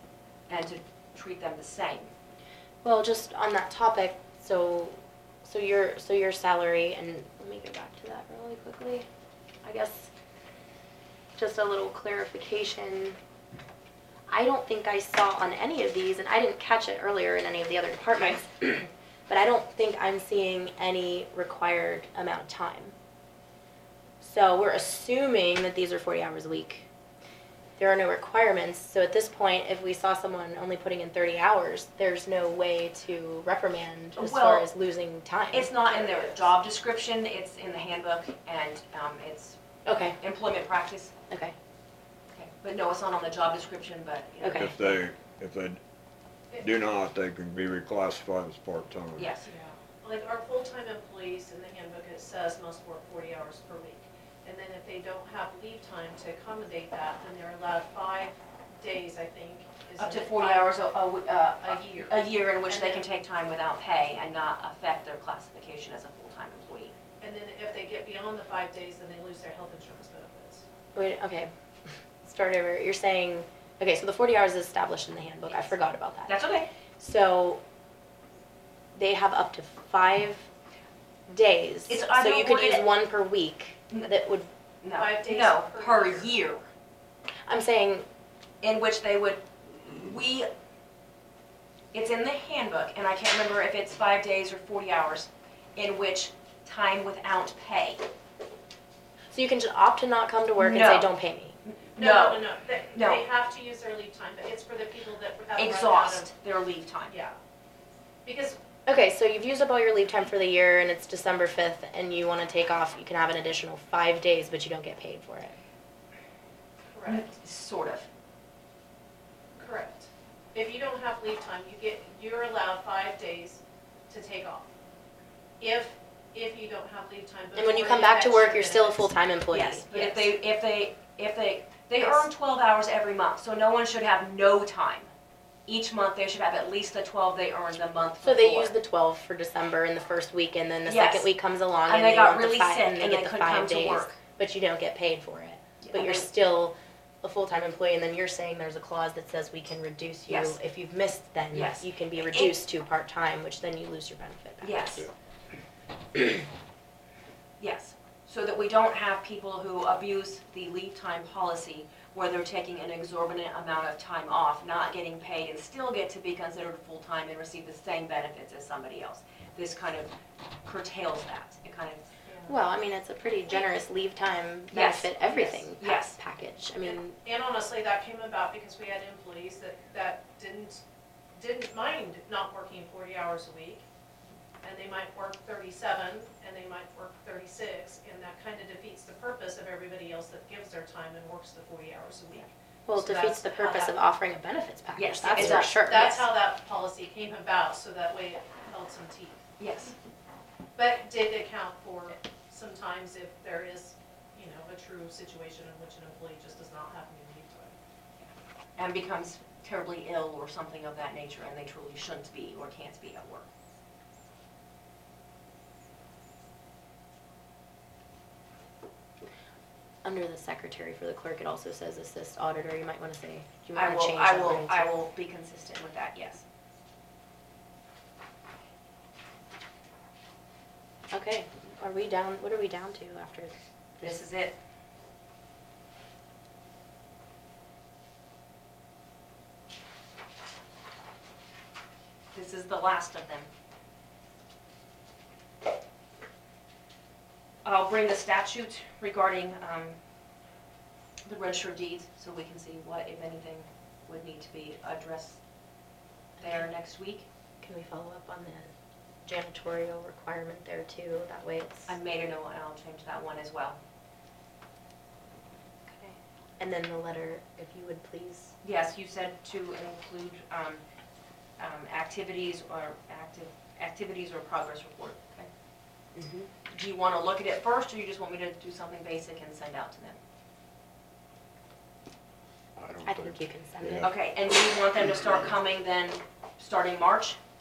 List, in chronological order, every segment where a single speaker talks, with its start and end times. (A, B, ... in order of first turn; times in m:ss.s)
0:00.5-0:02.1 A
0:02.8-0:09.0 B
0:09.6-0:10.1 B
0:11.4-0:13.2 B
0:14.3-0:22.9 B
0:24.2-0:26.9 B
0:27.8-0:35.7 B
0:34.2-0:34.7 A
0:35.5-0:39.6 A
0:35.9-0:36.4 C
0:39.8-0:40.2 B
0:40.2-0:41.1 A
0:41.3-0:41.5 B
0:42.3-0:44.8 A
0:44.4-0:44.8 B
0:44.5-0:45.8 D
0:46.6-0:49.3 D
0:49.2-0:49.5 A
0:49.5-1:00.7 C
1:00.0-1:06.9 A
1:01.6-1:02.1 C
1:02.7-1:03.0 C
1:07.2-1:10.6 C
1:10.9-1:11.5 B
1:12.2-1:16.4 B
1:16.3-1:16.7 A
1:17.0-1:17.6 B
1:18.9-1:20.4 B
1:21.3-1:24.5 B
1:21.9-1:22.9 A
1:24.8-1:26.7 A
1:24.9-1:26.3 C
1:27.5-1:28.0 B
1:28.6-1:30.5 A
1:31.9-1:38.0 A
1:39.3-1:41.5 B
1:40.6-1:41.1 A
1:41.6-1:43.2 A
1:42.0-1:46.3 C
1:45.6-1:47.1 A
1:47.1-1:47.4 C
1:48.2-1:48.6 C
1:48.8-1:55.6 B
1:56.9-1:57.3 C
1:57.0-1:58.1 A
1:59.6-2:04.7 C
2:05.6-2:09.1 C
2:07.5-2:09.9 B
2:09.5-2:15.1 A
2:09.9-2:10.3 C
2:15.7-2:18.7 A
2:18.2-2:35.0 B
2:20.8-2:21.3 A
2:21.9-2:24.2 A
2:25.8-2:26.3 A
2:30.3-2:30.6 A
2:31.5-2:32.6 A
2:34.6-2:35.1 A
2:37.6-2:50.1 A
2:50.6-2:52.0 A
2:52.3-2:52.5 C
2:52.5-2:57.2 B
2:54.7-2:56.2 A
2:56.8-3:00.8 C
3:01.4-3:03.8 C
3:04.6-3:14.0 C
3:12.9-3:16.3 B
3:14.9-3:15.8 A
3:15.3-3:19.5 C
3:19.6-3:19.9 A
3:20.8-3:27.7 C
3:28.8-3:33.5 A
3:40.0-3:44.9 B
3:43.7-3:46.4 A
3:51.1-3:54.2 B
3:54.0-3:54.6 A
4:02.3-4:03.5 A
4:07.6-4:10.0 A
4:11.2-4:15.4 A
4:16.4-4:16.6 B
4:16.4-4:17.2 A
4:17.6-4:18.7 B
4:19.2-4:21.9 B
4:21.9-4:23.8 A
4:25.9-4:28.5 B
4:28.6-4:30.8 A
4:31.6-4:35.5 A
4:36.2-4:40.2 A
4:42.8-4:44.1 D
4:43.0-4:44.1 B
4:44.0-4:47.4 A